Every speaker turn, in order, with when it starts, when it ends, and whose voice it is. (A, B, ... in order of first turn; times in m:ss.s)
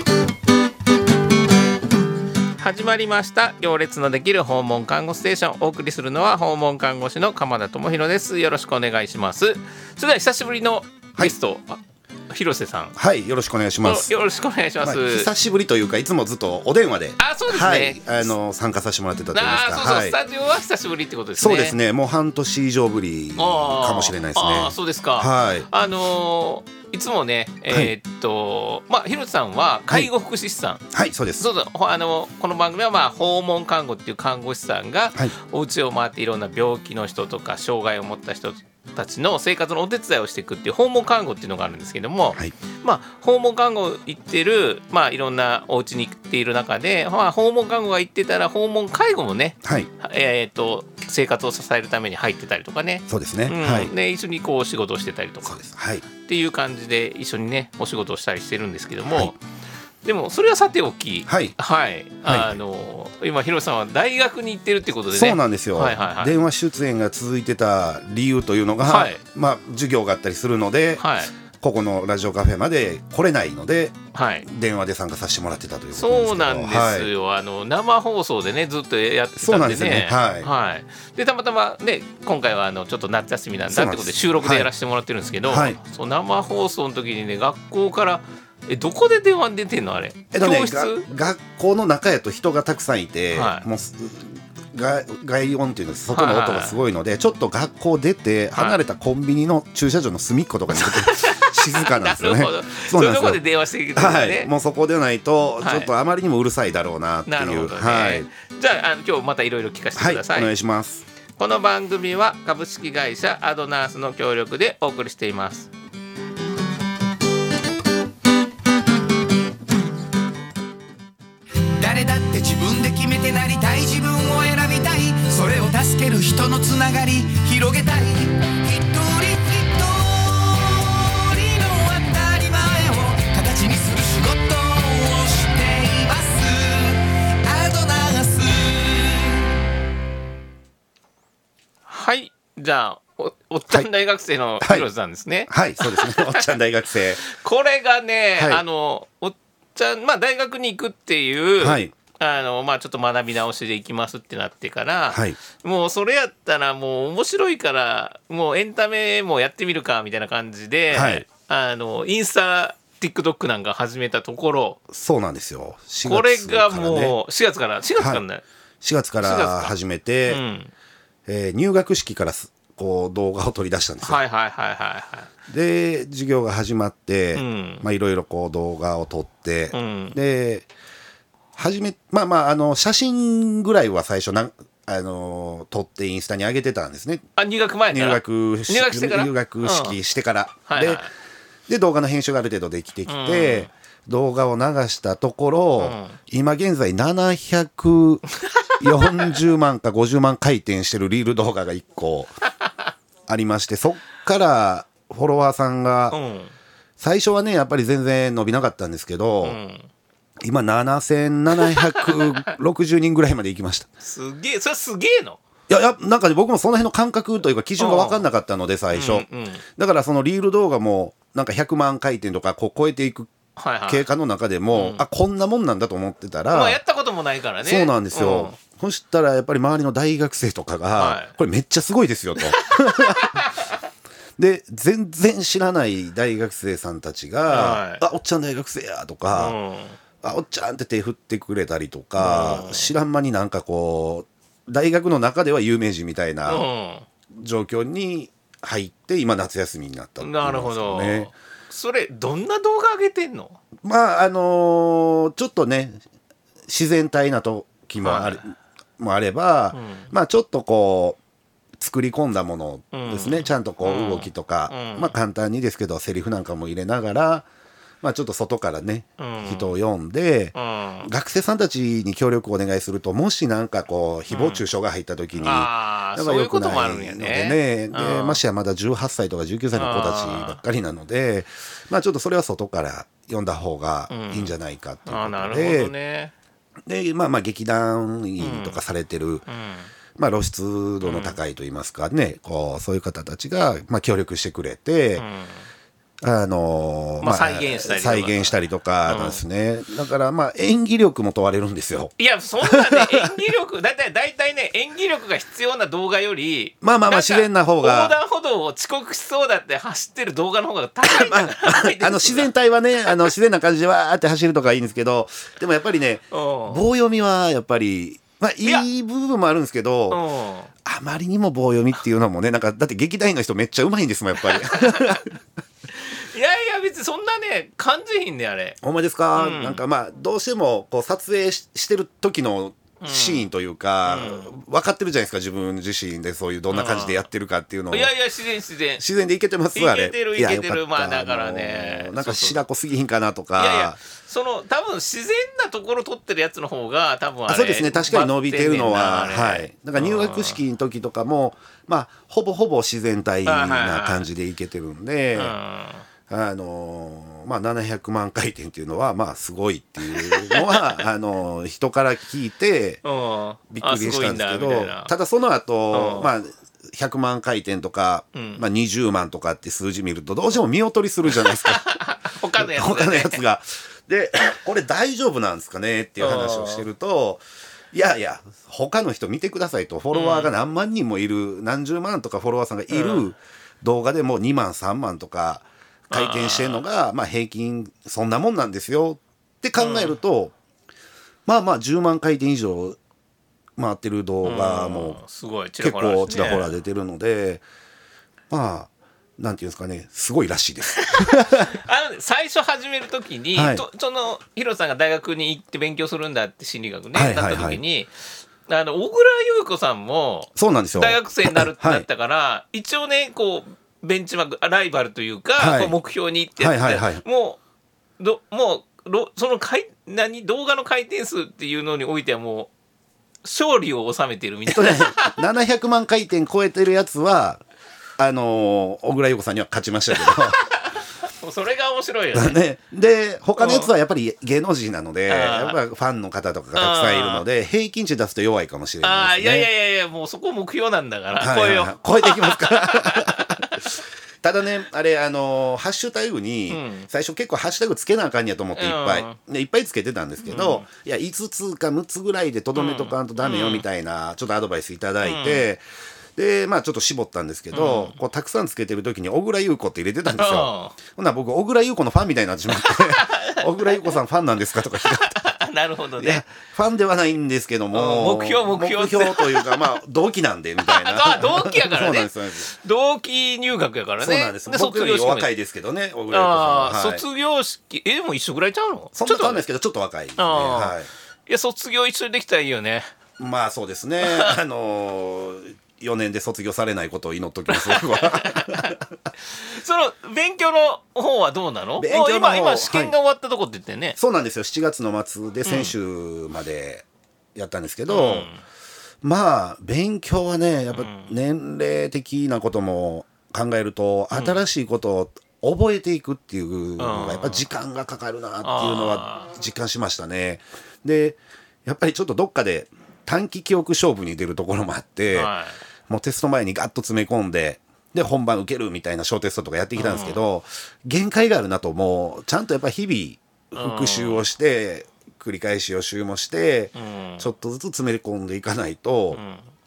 0:02.6-0:13.0 A
0:13.0-0:14.1 B
0:13.8-0:15.3 A
0:14.8-0:20.2 B
0:17.2-0:18.3 A
0:19.3-0:21.8 A
0:21.4-0:25.7 B
0:23.4-0:30.8 A
0:30.9-0:31.5 B
0:31.4-0:55.6 A
0:49.6-0:49.9 B
0:53.1-0:53.9 B
0:55.4-0:56.0 B
0:56.2-0:59.4 A
0:59.0-0:59.3 B
1:00.0-1:06.4 A
1:01.3-1:01.5 B
1:02.2-1:02.6 B
1:05.1-1:11.0 B
1:08.8-1:09.2 A
1:11.0-1:11.3 A
1:11.6-1:17.1 B
1:14.1-1:14.5 A
1:15.9-1:31.0 A
1:19.4-1:20.5 B
1:23.7-1:24.7 B
1:25.4-1:25.8 B
1:30.3-1:43.4 B
1:33.3-1:33.6 A
1:36.1-1:36.8 A
1:38.5-1:38.8 A
1:40.7-1:44.5 A
1:43.9-1:48.3 B
1:45.6-1:45.9 A
1:47.3-1:50.5 A
1:50.0-1:51.0 B
1:51.4-1:55.7 A
2:01.8-2:19.5 C
2:21.9-2:26.5 A
2:24.6-2:24.9 B
2:25.5-2:27.2 B
2:27.2-2:44.8 A
2:28.4-2:28.6 B
2:31.6-2:31.9 B
2:35.1-2:35.4 B
2:40.9-2:41.2 B
2:44.9-2:47.2 B
2:46.0-2:48.4 A
2:48.0-2:48.2 B
2:48.8-2:50.4 B
2:49.2-2:49.7 A
2:50.2-2:50.7 A
2:51.3-2:54.2 B
2:54.0-2:55.3 A
2:55.5-3:00.7 B
2:57.3-2:57.8 A
2:59.7-3:00.2 A
3:01.6-3:07.2 B
3:07.4-3:10.0 A
3:07.9-3:11.0 B
3:10.7-3:11.1 A
3:11.7-3:18.2 B
3:13.0-3:13.7 A
3:15.8-3:16.2 A
3:18.5-3:19.4 A
3:18.8-3:22.3 B
3:23.3-3:26.2 B
3:26.1-3:26.5 A
3:27.0-3:29.6 B
3:29.4-3:29.9 A
3:30.4-3:33.9 B
3:31.7-3:32.4 A
3:34.0-3:35.4 A
3:35.7-3:43.3 B
3:37.8-3:38.2 A
3:38.9-3:39.6 A
3:43.6-3:44.0 A
3:43.9-3:46.8 B
3:44.7-3:45.0 A
3:46.5-3:48.6 A
3:47.6-3:53.5 B
3:50.9-3:51.3 A
3:52.4-3:53.7 A
3:54.4-3:59.5 B
3:57.5-3:58.0 A
3:59.3-4:00.0 A
4:00.2-4:06.6 B
4:02.2-4:02.9 A
4:06.4-4:07.0 A
4:07.3-4:11.3 B
4:10.2-4:13.6 A
4:13.8-4:16.0 B
4:16.7-4:21.2 B
4:18.0-4:18.4 A
4:19.7-4:20.1 A
4:21.8-4:27.5 B
4:22.9-4:25.2 A
4:28.0-4:45.9 B
4:29.2-4:29.8 A
4:30.5-4:31.1 A
4:34.3-4:34.6 A
4:35.4-4:38.4 A
4:39.7-4:40.6 A
4:44.1-4:44.5 A
4:45.0-4:46.3 A
4:46.8-4:49.4 B
4:48.4-4:48.8 A
4:49.5-4:49.9 A
4:50.2-4:55.2 B
4:51.0-4:51.4 A
4:55.2-4:55.6 A
4:56.2-5:03.3 B
4:57.2-4:59.4 A
5:02.2-5:12.5 A
5:06.8-5:08.2 B
5:11.0-5:20.2 B
5:13.0-5:13.3 A
5:16.3-5:16.8 A
5:20.1-5:20.7 A
5:20.8-5:25.3 B
5:24.4-5:25.2 A
5:26.0-5:28.8 A
5:28.8-5:38.1 B
5:29.3-5:29.8 A
5:33.0-5:33.5 A
5:34.0-5:34.5 A
5:36.7-5:37.2 A
5:37.9-5:39.0 A
5:39.0-5:44.0 B
5:39.7-5:42.6 A
5:43.5-5:50.6 A
5:47.5-5:55.6 B
5:53.4-5:54.3 A
5:55.3-5:56.0 A
5:56.3-6:03.0 B
6:00.1-6:01.0 A
6:03.0-6:05.1 A
6:03.7-6:12.0 B
6:05.9-6:06.3 A
6:08.3-6:08.6 A
6:11.3-6:13.4 A
6:12.6-6:30.5 B
6:16.2-6:16.8 A
6:20.1-6:20.5 A
6:22.9-6:23.3 A
6:26.1-6:26.8 A
6:29.8-6:30.2 A
6:31.4-6:33.0 B
6:33.8-6:35.2 B
6:34.4-6:36.7 A
6:35.8-6:37.6 B
6:38.5-6:41.7 B
6:40.9-6:57.6 A
6:43.5-6:43.8 B
6:47.1-6:47.8 B
6:50.6-6:52.0 B
6:55.6-6:55.9 B
6:56.6-6:57.2 B
6:58.2-7:02.7 A
7:03.4-7:05.4 A
7:04.7-7:07.6 B
7:08.2-7:10.6 B
7:10.2-7:12.6 A
7:12.3-7:19.7 B
7:13.6-7:13.9 A
7:15.3-7:15.8 A
7:16.7-7:17.4 A
7:19.0-7:23.9 A
7:21.4-7:35.8 B
7:26.7-7:27.1 A
7:28.8-7:29.4 A
7:30.4-7:30.9 A
7:32.7-7:33.8 A
7:35.2-7:35.6 A
7:36.4-7:45.4 B
7:37.7-7:38.2 A
7:40.4-7:41.0 A
7:42.7-7:44.2 A
7:44.9-7:46.4 A
7:46.2-7:52.7 B
7:47.9-7:50.0 A
7:50.8-7:55.5 A
7:54.2-7:57.2 B
7:56.3-7:59.6 A
7:59.1-8:01.1 B
8:00.4-8:01.0 A
8:01.5-8:03.1 A
8:03.4-8:09.1 B
8:04.2-8:04.6 A
8:07.7-8:09.0 A
8:09.5-8:14.2 A
8:12.0-8:13.1 B
8:14.2-8:18.5 B
8:15.6-8:15.9 A
8:18.1-8:18.6 A
8:19.2-8:35.5 B
8:20.9-8:21.3 A
8:24.3-8:24.6 A
8:27.0-8:27.7 A
8:28.6-8:29.5 A
8:35.3-8:35.8 A
8:36.1-8:49.4 B
8:40.0-8:40.4 A
8:43.7-8:44.4 A
8:46.9-8:47.5 A
8:49.3-8:49.7 A